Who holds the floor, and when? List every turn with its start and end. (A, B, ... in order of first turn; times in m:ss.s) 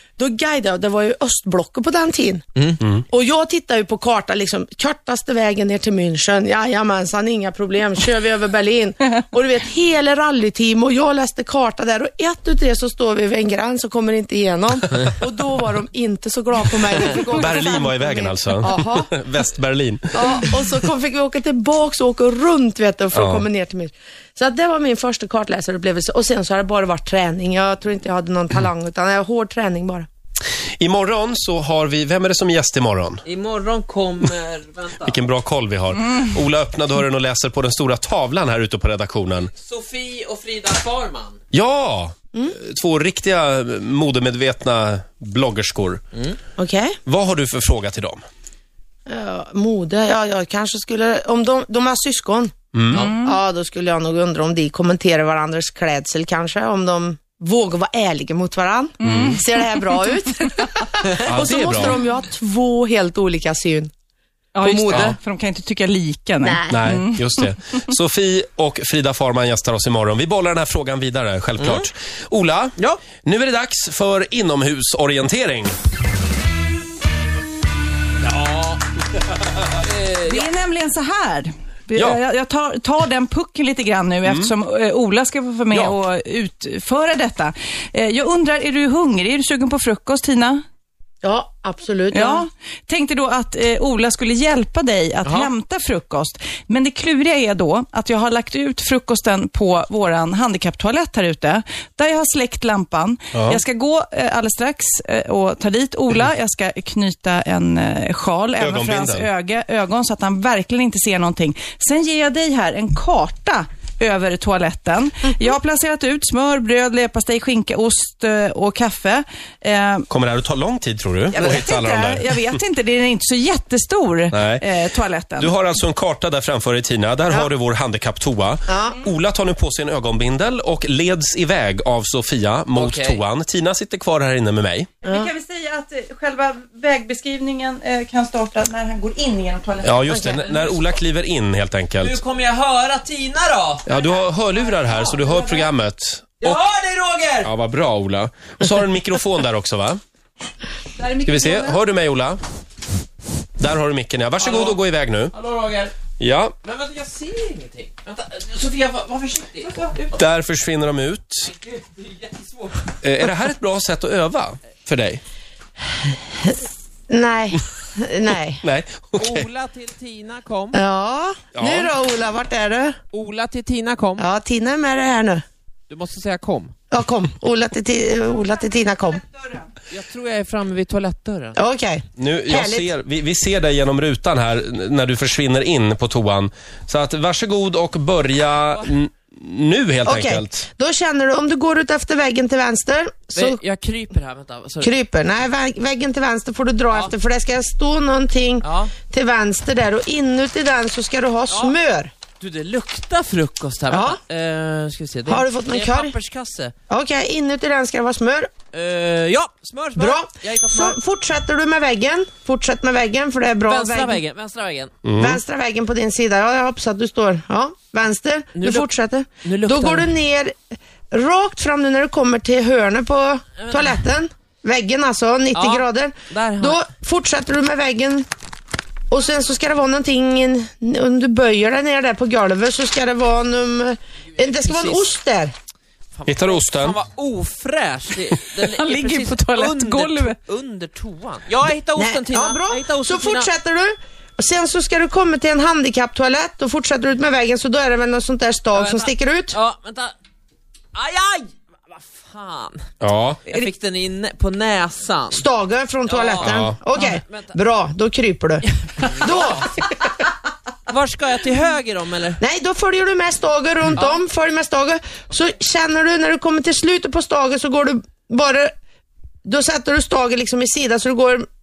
0:00.2-0:02.4 A
0:03.0-0:19.1 A
0:17.2-0:20.3 B
0:20.1-0:30.1 A
0:23.2-0:23.4 B
0:30.8-0:33.2 B
0:33.3-0:35.2 C
0:35.0-0:39.5 B
0:39.6-0:41.4 C
0:41.5-0:46.0 B
0:46.6-0:47.0 A
0:47.1-0:48.2 B
0:49.1-1:03.9 A
0:52.7-0:53.1 B
0:52.9-0:53.4 D
0:59.0-1:00.3 D
0:59.0-0:59.4 B
1:01.2-1:02.0 B
1:01.6-1:02.0 D
1:04.6-1:07.8 D
1:04.6-1:05.1 A
1:04.9-1:05.2 B
1:06.4-1:06.7 A
1:06.7-1:15.8 B
1:11.6-1:11.9 C
1:18.2-1:18.8 C
1:19.8-1:20.5 C
1:20.2-1:30.6 D
1:24.3-1:24.5 B
1:31.2-1:32.4 A
1:32.1-2:00.1 D
1:35.2-1:35.5 C
1:43.3-1:43.6 B
1:48.6-1:49.3 B
2:00.1-2:02.4 B
2:01.3-2:05.5 D
2:04.3-2:04.6 B
2:05.4-2:14.9 B
2:08.7-2:09.0 A
2:12.8-2:13.2 C
2:15.0-2:20.6 D
2:19.8-2:22.2 B
2:22.0-2:23.9 C
2:23.9-2:26.6 B
2:23.9-2:25.7 D
2:26.4-2:27.5 C
2:27.4-2:30.0 B
2:31.0-2:31.8 D
2:31.2-2:32.4 B
2:33.6-2:35.3 B
2:34.4-2:34.8 C
2:35.3-2:35.9 C
2:36.2-2:36.5 B
2:36.6-2:40.0 C
2:40.2-2:41.5 B
2:41.5-2:42.9 C
2:43.0-2:45.2 B
2:46.4-2:48.6 A
2:48.6-2:49.5 B
2:49.2-2:50.8 C
2:50.7-2:53.0 A
2:51.6-2:51.9 B
2:53.1-2:54.2 C
2:54.2-2:55.4 A
2:55.9-2:56.8 C
2:56.9-2:59.2 A
2:59.9-3:01.6 C
3:01.6-3:02.9 A
3:02.2-3:10.7 B
3:10.0-3:13.6 A
3:13.4-3:14.9 C
3:14.8-3:22.1 A
3:18.6-3:18.9 C
3:22.4-3:26.7 C
3:23.9-3:24.2 A
3:25.3-3:26.2 A
3:26.9-3:28.5 A
3:28.7-3:31.0 C
3:30.0-3:34.2 A
3:33.7-3:34.9 C
3:35.0-3:35.4 B
3:35.2-3:40.6 A
3:38.6-3:38.9 C
3:39.4-3:40.1 C
3:41.1-3:48.3 A
3:43.6-3:44.0 C
3:45.5-3:46.8 C
3:49.1-3:55.5 A
3:54.4-3:55.1 C
3:56.2-4:03.5 C
3:56.3-3:57.0 B
3:58.6-4:00.4 D
4:01.6-4:09.6 A
4:08.7-4:10.2 C
4:10.9-4:12.8 C
4:13.0-4:13.5 B
4:13.5-4:15.5 C
4:15.3-4:19.9 A
4:16.1-4:17.6 C
4:16.4-4:16.8 B
4:19.0-4:19.7 C
4:20.9-4:22.4 C
4:22.4-4:28.7 A
4:23.9-4:24.2 C
4:29.4-4:31.5 A